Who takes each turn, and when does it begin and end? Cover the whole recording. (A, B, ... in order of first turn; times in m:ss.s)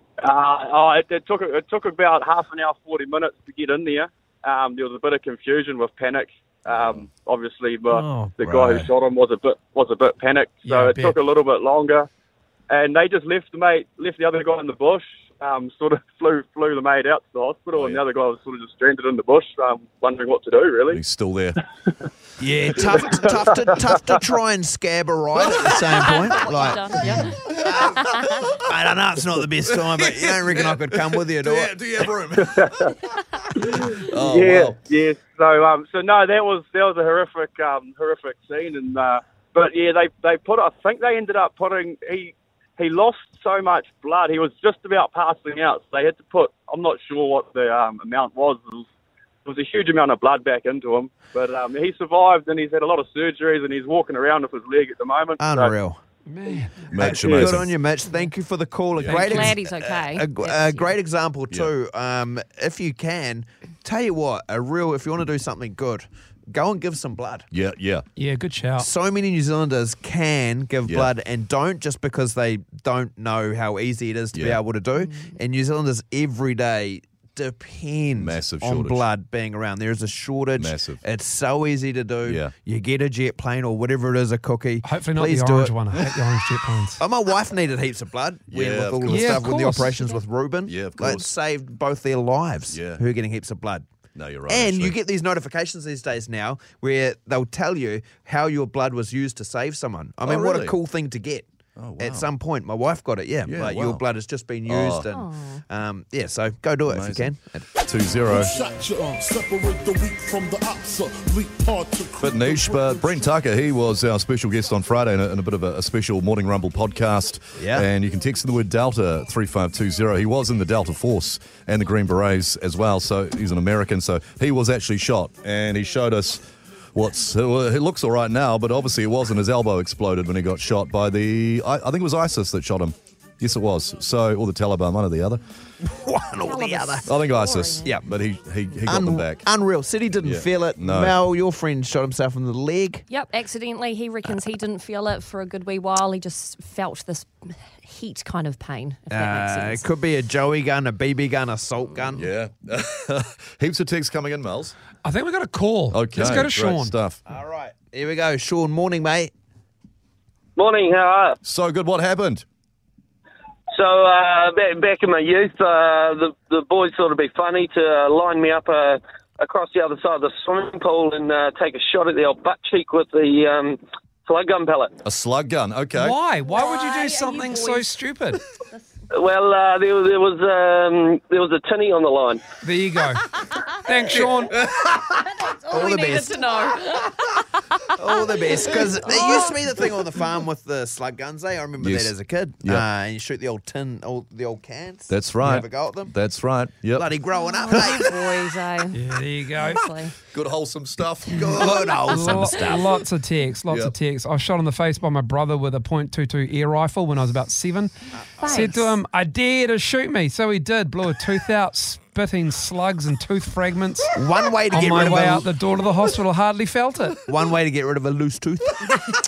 0:00.2-0:12.1 A
0:06.7-0:07.0 B
0:08.5-0:08.9 C
0:10.6-0:11.2 D
0:12.7-0:21.0 A
0:17.7-0:18.0 B
0:20.9-0:21.6 B
0:22.4-0:26.8 C
0:22.7-0:24.0 A
0:25.4-0:25.7 B
0:25.8-0:28.5 E
0:27.4-0:28.6 B
0:28.6-0:31.7 C
0:29.7-0:32.9 B
0:32.3-0:32.9 A
0:33.6-0:48.8 A
0:34.1-0:34.8 B
0:49.4-0:55.7 A
0:55.4-0:56.0 C
0:56.2-0:56.9 D
0:56.9-0:57.7 B
0:57.0-0:57.5 A
0:57.0-1:07.5 C
0:59.0-0:59.4 B
0:59.0-1:00.9 E
1:07.5-1:08.0 B
1:08.2-1:08.9 D
1:08.8-1:25.7 C
1:10.8-1:11.1 B
1:14.3-1:14.6 B
1:15.0-1:15.3 E
1:18.2-1:19.1 B
1:20.6-1:21.0 B
1:22.2-1:22.5 B
1:24.8-1:27.0 D
1:27.0-1:33.8 C
1:28.5-1:29.5 B
1:29.0-1:30.1 D
1:30.6-1:31.3 B
1:32.7-1:33.0 B
1:34.2-1:35.0 B
1:34.5-1:41.5 C
1:40.2-1:40.8 B
1:41.8-1:42.3 B
1:42.0-1:47.6 C
1:43.4-1:44.0 B
1:44.6-1:45.1 B
1:45.0-1:45.6 E
1:46.9-1:48.5 B
1:48.2-1:53.2 F
1:52.2-2:06.4 B
1:57.6-1:57.9 C
2:06.9-2:15.4 B
2:15.8-2:17.1 C
2:16.4-2:17.9 E
2:17.0-2:19.4 B
2:18.9-2:23.0 C
2:20.2-2:21.2 B
2:23.1-2:29.8 E
2:29.1-2:32.3 C
2:32.1-2:34.7 B
2:35.0-2:37.0 D
2:35.9-2:37.2 B
2:37.3-2:39.3 C
2:40.6-2:41.4 G
2:41.4-2:42.4 B
2:43.7-2:54.9 G
2:55.0-2:56.1 B
2:55.9-2:58.4 D
2:56.5-2:57.9 E
2:59.1-3:02.4 G
3:02.6-3:03.2 D
3:03.5-3:03.8 E
3:03.8-3:04.6 D
3:04.6-3:04.8 B
3:05.4-3:07.9 E
3:05.7-3:06.3 C
3:08.0-3:16.1 C
3:08.5-3:09.8 E
3:11.8-3:12.1 B
3:15.1-3:17.0 B
3:17.0-3:18.1 C
3:17.3-3:20.2 E
3:18.9-3:19.8 D
3:20.3-3:21.9 B
3:21.3-3:22.9 C
3:21.4-3:22.7 E
3:21.5-3:34.1 D
3:23.7-3:23.9 B
3:28.4-3:28.9 E
3:34.1-3:35.5 C
3:34.7-3:37.2 D
3:37.3-3:38.8 C